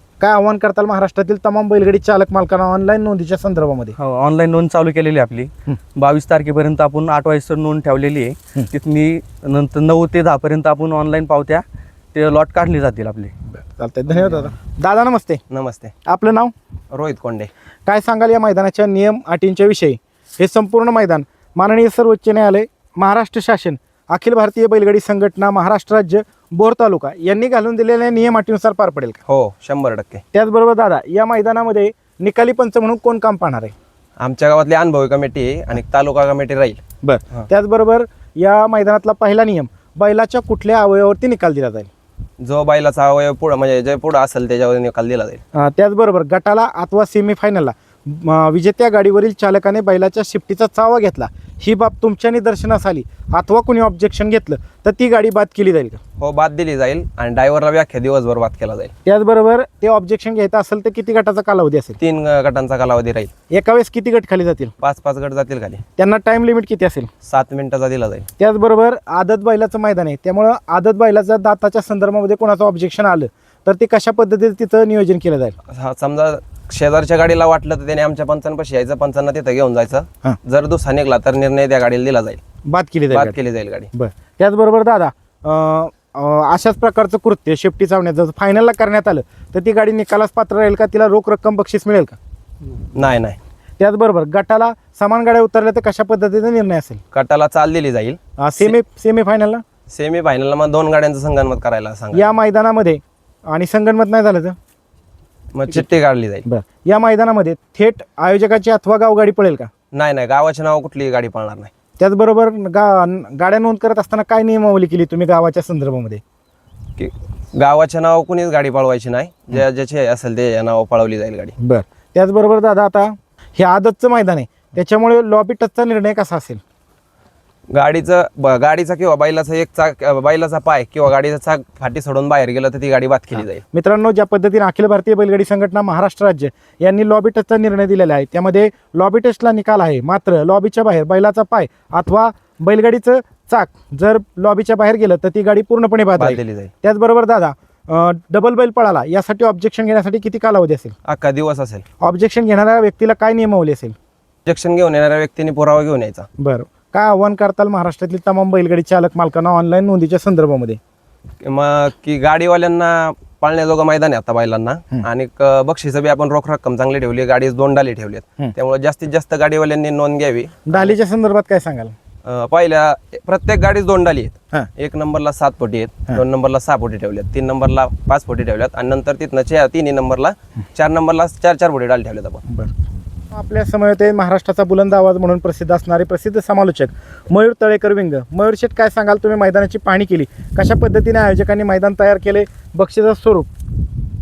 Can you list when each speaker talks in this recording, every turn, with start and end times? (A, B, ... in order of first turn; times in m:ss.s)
0:00.2-0:04.0 A
0:04.0-0:13.3 B
0:13.5-0:15.4 A
0:15.5-0:15.9 C
0:16.0-0:16.5 A
0:16.9-0:17.5 C
0:17.9-0:29.2 A
0:29.3-0:30.2 C
0:30.3-0:33.7 A
0:34.2-0:36.8 C
0:37.0-0:41.9 A
0:42.4-0:45.4 C
0:45.5-0:56.0 A
0:56.2-0:58.9 C
0:59.0-1:02.0 A
1:02.0-1:03.3 C
1:03.5-1:04.7 A
1:04.8-1:05.8 C
1:06.0-1:07.1 A
1:07.2-1:08.3 C
1:08.4-1:15.6 A
1:15.7-1:22.4 C
1:22.7-1:23.4 A
1:23.1-1:23.9 C
1:23.9-1:32.2 A
1:33.0-1:33.4 C
1:33.8-1:37.0 A
1:37.1-1:38.8 C
1:38.4-1:39.6 A
1:39.9-1:42.4 C
1:42.1-1:44.6 A
1:45.5-1:46.4 C
1:46.4-1:49.7 A
1:49.9-1:51.7 C
1:52.0-1:56.2 A
1:57.0-2:01.5 C
2:01.6-2:06.6 A
2:07.7-2:13.6 C
2:13.7-2:31.0 A
2:26.2-2:26.7 C
2:31.1-2:31.8 C
2:32.0-2:34.0 A
2:34.5-2:36.3 C
2:36.4-2:40.8 A
2:41.4-2:51.0 C
2:50.7-2:51.9 A
2:52.2-3:02.4 C
3:03.3-3:13.5 A